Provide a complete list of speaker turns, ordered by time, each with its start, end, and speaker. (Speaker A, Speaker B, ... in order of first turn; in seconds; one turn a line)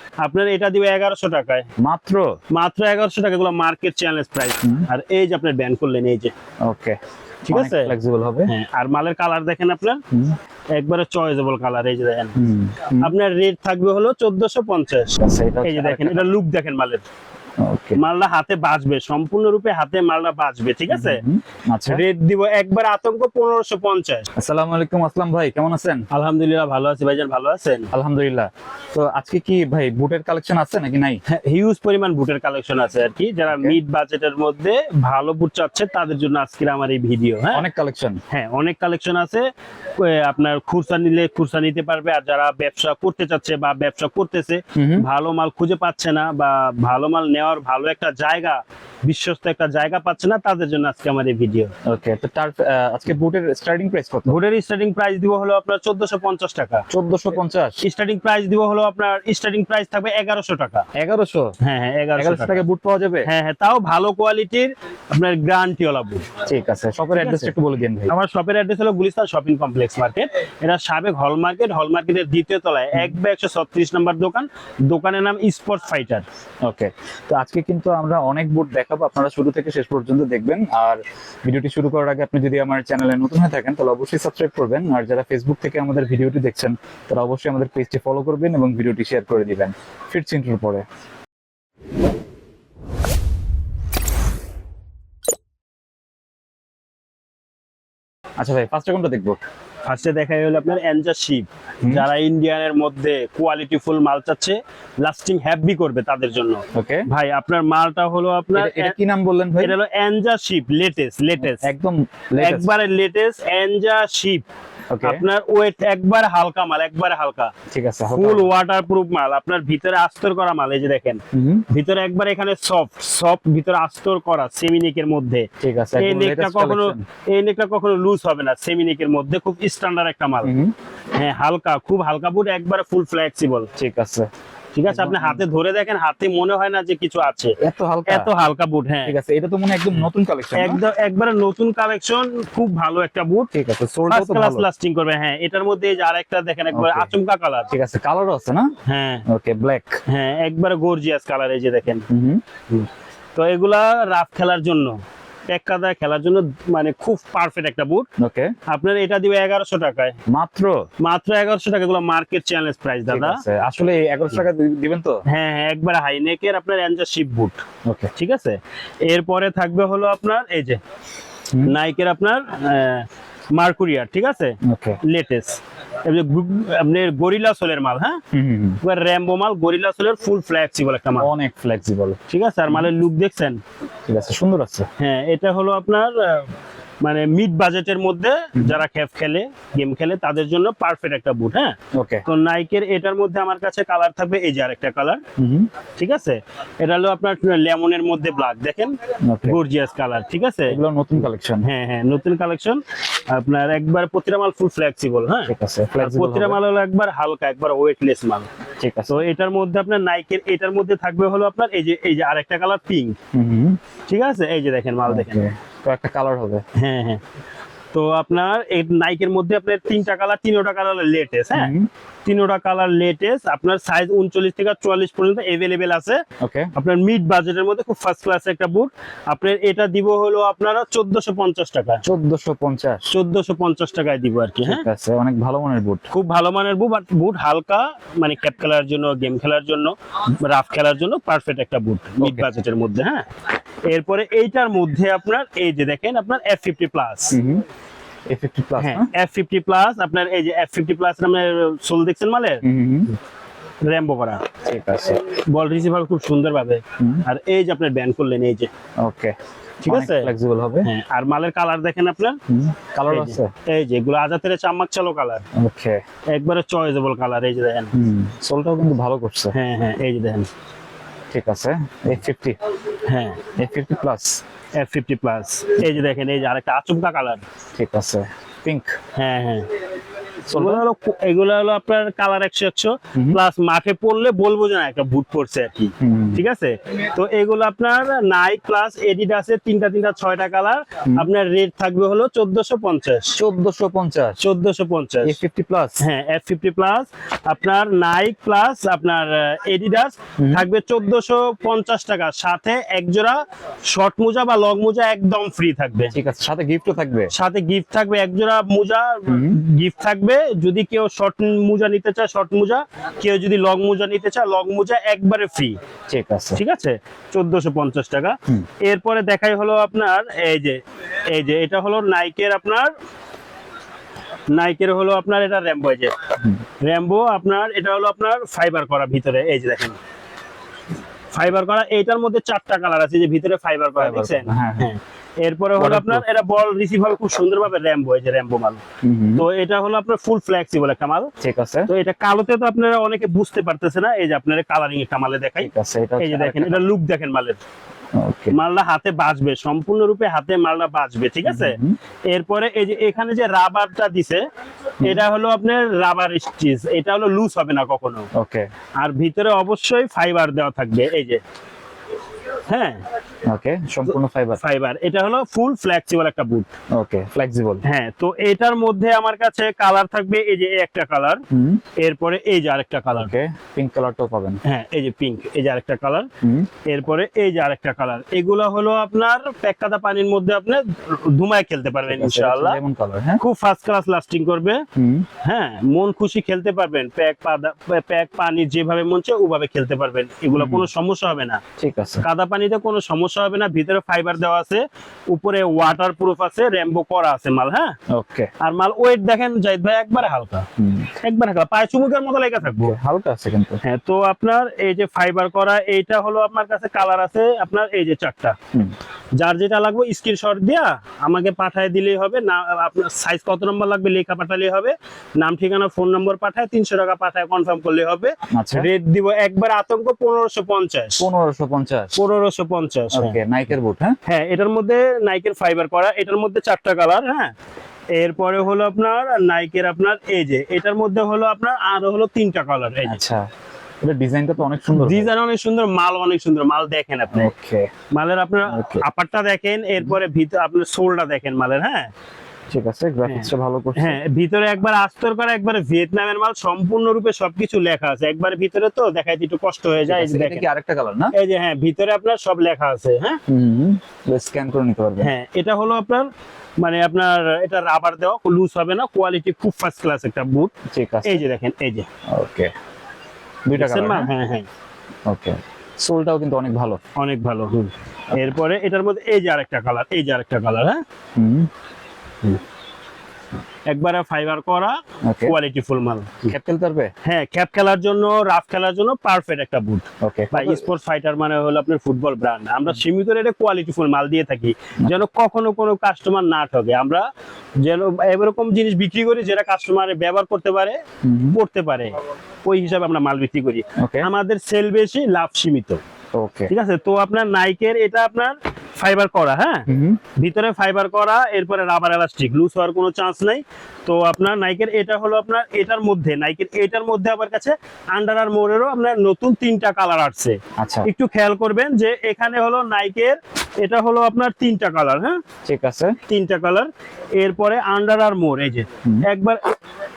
Speaker A: 0.2-1.7
Speaker B: 1.8-2.4
Speaker A: 2.5-6.3
Speaker B: 4.6-4.9
Speaker B: 6.6-8.5
Speaker A: 7.5-7.9
Speaker A: 8.4-10.0
Speaker B: 10.1-10.4
Speaker A: 10.7-12.4
Speaker B: 12.3-13.1
Speaker A: 13.0-17.0
Speaker B: 15.2-16.3
Speaker B: 17.6-18.0
Speaker A: 17.9-21.2
Speaker B: 20.9-22.0
Speaker A: 21.9-24.3
Speaker B: 24.4-26.1
Speaker A: 26.1-27.9
Speaker B: 27.9-31.2
Speaker A: 31.2-37.6
Speaker B: 33.5-33.8
Speaker B: 37.5-38.2
Speaker A: 38.3-51.7
Speaker B: 44.7-45.0
Speaker B: 51.8-54.4
Speaker A: 54.3-56.9
Speaker B: 56.9-57.8
Speaker A: 57.8-60.9
Speaker B: 60.9-61.5
Speaker A: 61.6-62.6
Speaker B: 62.2-63.3
Speaker A: 63.2-66.3
Speaker B: 66.4-68.1
Speaker A: 67.1-67.5
Speaker A: 68.1-76.2
Speaker B: 76.6-90.8
Speaker B: 98.4-99.4
Speaker A: 99.8-109.0
Speaker B: 101.8-102.1
Speaker B: 106.7-107.1
Speaker B: 108.5-109.8
Speaker A: 109.6-111.7
Speaker B: 111.4-112.7
Speaker A: 112.4-114.4
Speaker B: 114.9-115.2
Speaker A: 115.0-117.5
Speaker B: 117.7-118.5
Speaker A: 118.1-130.5
Speaker B: 121.3-121.7
Speaker B: 125.6-127.0
Speaker B: 130.4-130.7
Speaker A: 131.1-133.7
Speaker B: 133.8-134.3
Speaker A: 134.7-139.2
Speaker B: 134.9-135.4
Speaker B: 137.6-138.3
Speaker B: 139.0-140.8
Speaker A: 139.9-147.7
Speaker B: 143.5-144.7
Speaker B: 146.7-147.1
Speaker B: 147.7-148.7
Speaker A: 148.9-149.2
Speaker B: 149.3-150.0
Speaker A: 150.1-152.1
Speaker B: 152.1-152.4
Speaker A: 152.7-158.1
Speaker B: 158.2-158.5
Speaker A: 158.7-160.2
Speaker B: 160.3-160.8
Speaker A: 161.0-163.4
Speaker B: 163.1-165.2
Speaker A: 165.3-167.6
Speaker B: 167.8-168.1
Speaker A: 168.2-170.8
Speaker A: 171.6-178.2
Speaker B: 174.6-175.0
Speaker B: 178.3-178.8
Speaker A: 178.8-181.3
Speaker B: 181.2-182.2
Speaker A: 182.3-183.6
Speaker B: 184.1-184.9
Speaker A: 185.0-195.2
Speaker B: 188.6-188.8
Speaker B: 191.9-192.2
Speaker B: 195.4-195.7
Speaker A: 196.0-208.5
Speaker B: 199.2-199.6
Speaker B: 200.7-201.7
Speaker B: 205.4-206.6
Speaker B: 208.8-209.2
Speaker A: 209.1-213.2
Speaker B: 213.3-213.8
Speaker A: 214.1-215.4
Speaker B: 215.1-216.6
Speaker A: 216.8-217.2
Speaker A: 217.9-221.7
Speaker B: 221.5-221.9
Speaker A: 222.2-226.2
Speaker B: 226.4-226.7
Speaker A: 226.7-232.0
Speaker B: 232.0-233.1
Speaker A: 233.1-234.8
Speaker B: 234.6-236.1
Speaker A: 236.1-243.2
Speaker B: 242.2-242.4
Speaker A: 243.8-247.4
Speaker B: 247.3-247.6
Speaker B: 248.3-249.1
Speaker A: 248.8-252.6
Speaker B: 252.6-253.1
Speaker A: 253.8-254.5
Speaker B: 254.6-255.2
Speaker A: 255.2-258.7
Speaker B: 257.0-257.2
Speaker B: 259.0-260.9
Speaker A: 259.9-260.3
Speaker A: 260.8-262.4
Speaker B: 262.5-263.5
Speaker A: 263.1-265.4
Speaker B: 265.6-266.0
Speaker A: 266.3-267.9
Speaker B: 267.9-269.5
Speaker A: 269.5-270.5
Speaker B: 271.3-272.6
Speaker A: 273.1-273.4
Speaker B: 273.6-274.4
Speaker A: 274.8-277.4
Speaker B: 277.8-279.0
Speaker A: 279.1-279.7
Speaker B: 280.5-280.8
Speaker A: 280.5-293.4
Speaker B: 283.1-283.4
Speaker B: 286.0-286.4
Speaker B: 293.3-294.4
Speaker A: 294.4-295.4
Speaker B: 295.2-296.0
Speaker A: 296.0-306.1
Speaker B: 300.4-300.7
Speaker B: 306.1-307.3
Speaker A: 307.3-315.8
Speaker B: 309.3-309.6
Speaker B: 316.1-316.6
Speaker A: 316.5-322.9
Speaker A: 324.5-326.2
Speaker A: 326.8-330.0
Speaker A: 331.3-338.8
Speaker B: 334.0-334.9
Speaker B: 335.8-336.2
Speaker B: 339.0-339.5
Speaker A: 339.4-341.3
Speaker B: 341.4-341.9
Speaker A: 341.9-347.6
Speaker B: 345.6-346.9
Speaker B: 348.1-348.6
Speaker A: 348.5-354.4
Speaker B: 351.4-351.9
Speaker A: 355.0-358.3
Speaker B: 358.3-358.7
Speaker A: 359.0-361.4
Speaker A: 362.7-363.0
Speaker B: 363.4-364.6
Speaker A: 364.6-366.7
Speaker B: 366.9-367.8
Speaker A: 367.8-371.4
Speaker B: 371.5-371.8
Speaker A: 371.9-373.3
Speaker B: 373.1-374.6
Speaker A: 374.6-376.3
Speaker B: 376.4-376.7
Speaker A: 376.8-382.8
Speaker B: 382.0-383.4
Speaker A: 383.4-384.9
Speaker B: 384.9-385.3
Speaker A: 385.4-391.6
Speaker B: 390.6-390.9
Speaker B: 391.8-392.2
Speaker A: 392.2-398.0
Speaker B: 398.1-398.5
Speaker A: 398.6-400.7
Speaker B: 400.8-401.1
Speaker A: 401.2-402.9
Speaker B: 402.6-403.8
Speaker A: 403.8-408.6
Speaker A: 409.4-421.2
Speaker B: 418.5-418.9
Speaker B: 421.2-422.2
Speaker A: 422.1-423.4
Speaker B: 423.1-424.1
Speaker A: 424.2-427.5
Speaker A: 428.1-433.2
Speaker B: 433.0-433.4
Speaker B: 434.0-435.3
Speaker A: 434.9-437.5
Speaker B: 437.3-437.9
Speaker A: 438.1-442.1
Speaker B: 438.6-439.0
Speaker B: 442.7-444.2
Speaker A: 443.2-450.6
Speaker B: 450.0-451.3
Speaker A: 451.3-453.4
Speaker B: 453.5-455.3
Speaker A: 455.2-456.3
Speaker A: 456.8-460.7
Speaker B: 460.9-461.4
Speaker A: 461.2-462.1
Speaker B: 462.3-462.7
Speaker B: 463.6-464.3
Speaker A: 463.7-464.7
Speaker B: 465.3-467.0
Speaker A: 467.1-471.0
Speaker B: 471.4-471.7
Speaker A: 473.9-476.6
Speaker B: 475.2-475.6
Speaker B: 476.5-477.1
Speaker A: 477.2-487.3
Speaker B: 480.2-480.8
Speaker A: 487.8-491.0
Speaker B: 491.2-491.6
Speaker A: 491.5-496.0
Speaker B: 494.0-494.3
Speaker B: 496.3-496.7
Speaker A: 496.7-515.4
Speaker B: 499.9-500.2
Speaker B: 510.8-511.1
Speaker B: 515.6-516.1
Speaker A: 516.3-519.6